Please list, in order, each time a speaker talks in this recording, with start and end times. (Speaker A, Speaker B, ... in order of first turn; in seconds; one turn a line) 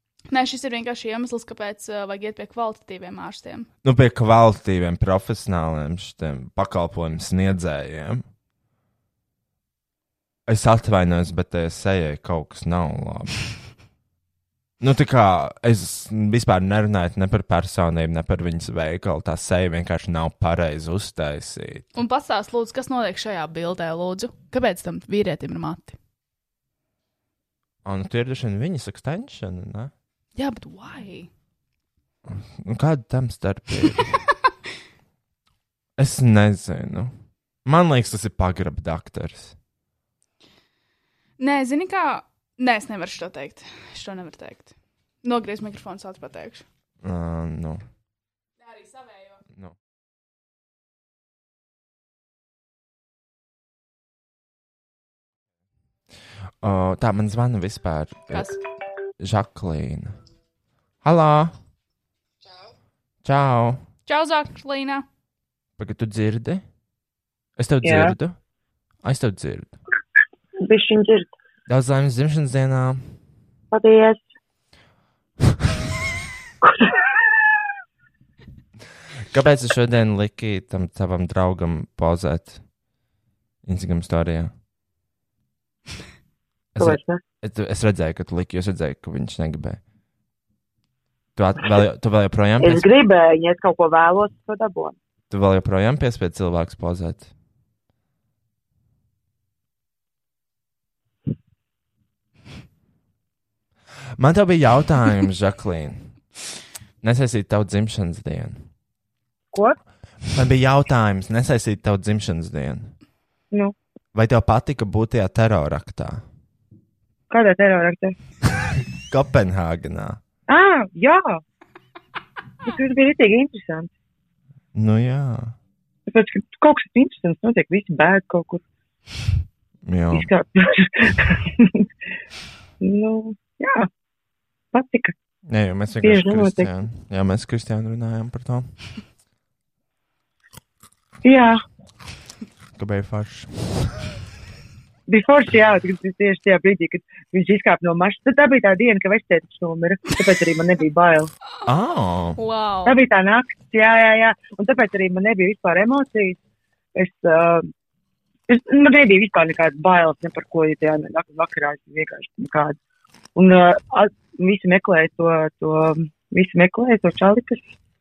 Speaker A: 0.3-3.7
Speaker B: 3.8-8.2
Speaker B: 10.5-13.3
Speaker B: 14.8-21.9
Speaker A: 21.9-26.0
Speaker B: 27.8-29.9
Speaker A: 30.4-31.3
Speaker B: 32.3-34.2
Speaker B: 36.0-37.1
Speaker B: 37.6-39.5
Speaker A: 41.4-44.7
Speaker A: 45.2-46.6
Speaker B: 47.0-47.8
Speaker A: 48.6-49.4
Speaker B: 56.6-58.5
Speaker A: 58.3-58.6
Speaker B: 59.2-60.1
Speaker B: 61.0-61.5
Speaker B: 63.2-63.8
Speaker A: 64.0-65.0
Speaker B: 65.8-66.6
Speaker B: 67.6-68.4
Speaker C: 67.8-68.2
Speaker B: 69.0-69.8
Speaker C: 70.6-71.3
Speaker B: 71.7-73.0
Speaker C: 73.7-74.2
Speaker B: 79.3-82.6
Speaker B: 83.7-84.5
Speaker B: 86.8-89.8
Speaker C: 86.8-87.2
Speaker B: 91.4-92.8
Speaker C: 92.6-95.0
Speaker B: 95.3-97.3
Speaker B: 104.2-106.1
Speaker B: 107.0-108.7
Speaker B: 110.3-112.9
Speaker B: 114.1-116.2
Speaker C: 117.3-118.1
Speaker B: 118.6-120.2
Speaker C: 120.5-121.4
Speaker C: 122.6-123.9
Speaker B: 124.7-125.5
Speaker C: 126.1-128.6
Speaker B: 129.8-130.3
Speaker C: 130.1-131.8
Speaker C: 132.8-133.9
Speaker C: 134.7-135.1
Speaker B: 135.5-138.7
Speaker C: 136.0-136.7
Speaker C: 141.2-141.6
Speaker B: 142.8-143.9
Speaker C: 145.1-151.3
Speaker B: 151.7-152.4
Speaker A: 152.4-153.0
Speaker C: 152.8-156.4
Speaker C: 156.9-157.7
Speaker C: 158.5-162.8
Speaker C: 163.3-167.7